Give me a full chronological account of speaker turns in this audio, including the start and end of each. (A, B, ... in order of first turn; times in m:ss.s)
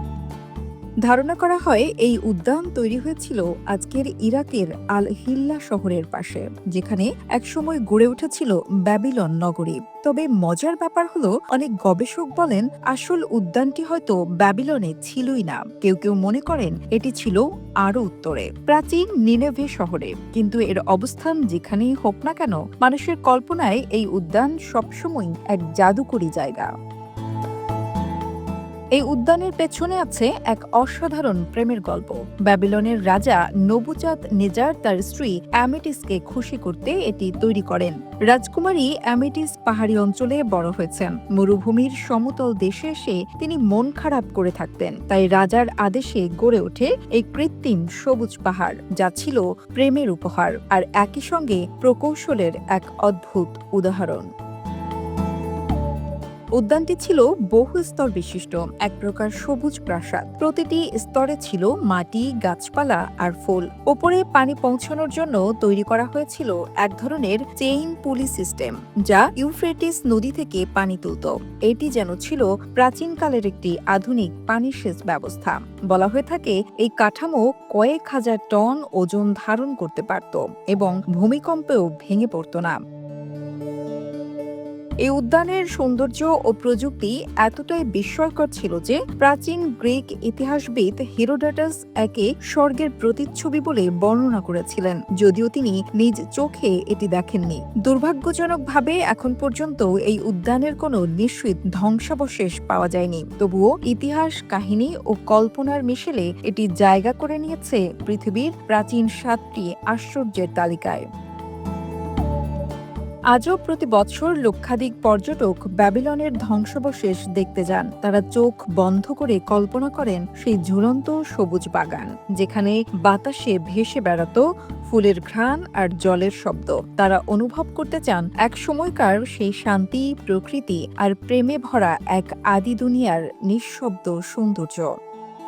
0:01.1-0:26.7 A
0:29.0-0:54.3 A
0:56.6-1:22.8 A
1:25.1-1:51.0 A
1:53.3-2:14.9 A